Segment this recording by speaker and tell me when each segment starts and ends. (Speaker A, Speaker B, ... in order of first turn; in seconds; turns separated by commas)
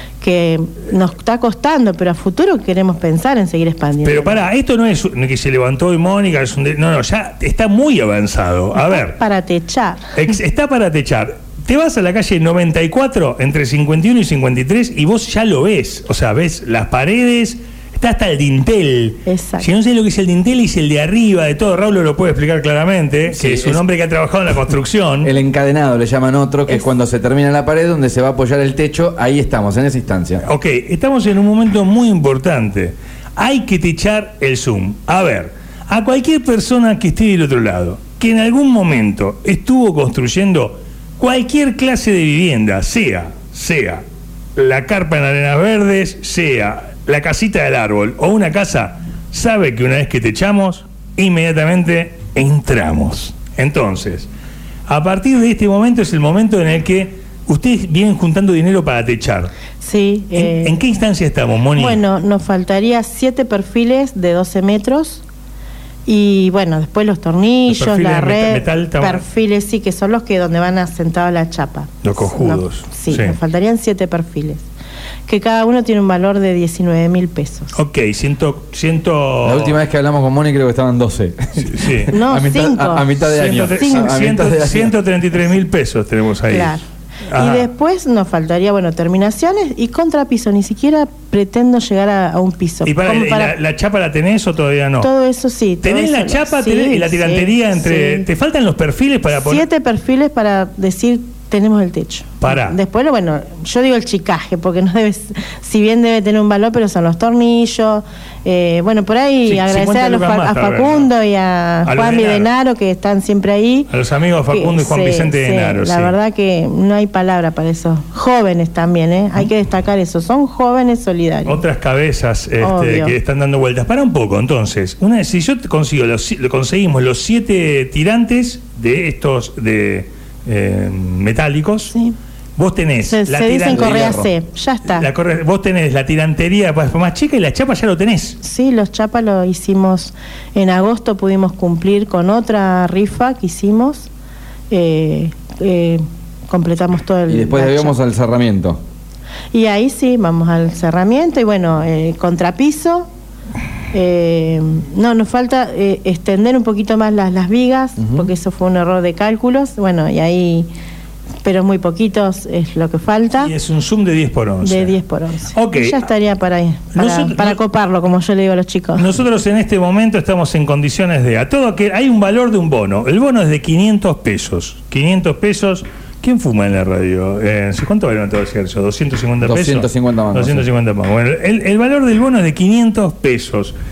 Speaker A: 0.2-4.4, Speaker B: 4.0-9.2, Speaker A: 8.8-10.2, Speaker B: 10.2-25.3, Speaker A: 19.3-19.7, Speaker C: 23.3-23.8, Speaker C: 25.2-30.4, Speaker B: 30.4-44.0, Speaker B: 44.6-54.3, Speaker B: 54.9-59.5, Speaker A: 59.8-60.8, Speaker B: 60.4-62.0, Speaker A: 61.8-65.2, Speaker A: 66.1-74.6, Speaker B: 67.7-69.2, Speaker B: 72.0-73.4, Speaker A: 75.3-77.8, Speaker B: 77.7-79.8, Speaker C: 79.4-85.0, Speaker B: 81.6-82.1, Speaker A: 82.1-83.1, Speaker B: 83.2-86.8, Speaker A: 83.8-84.1, Speaker A: 86.5-86.8, Speaker B: 87.3-87.7, Speaker A: 87.3-93.5, Speaker B: 92.8-95.1, Speaker A: 95.0-98.3, Speaker B: 95.8-99.6, Speaker A: 99.3-113.9, Speaker B: 102.4-102.8, Speaker B: 109.5-111.1, Speaker B: 111.8-112.5, Speaker B: 113.9-116.1, Speaker A: 114.5-121.6, Speaker B: 121.5-131.9, Speaker A: 122.6-123.2, Speaker B: 132.6-134.2, Speaker A: 133.1-135.1, Speaker C: 133.7-134.3, Speaker B: 134.9-138.4, Speaker A: 138.4-144.1, Speaker A: 144.7-147.9, Speaker C: 147.3-148.8, Speaker A: 149.5-153.1, Speaker A: 153.9-160.7, Speaker C: 158.0-158.3, Speaker A: 161.4-163.5, Speaker B: 163.4-164.9, Speaker A: 164.6-169.1, Speaker B: 165.5-166.0, Speaker B: 166.9-167.6, Speaker B: 169.0-183.8, Speaker C: 179.4-180.7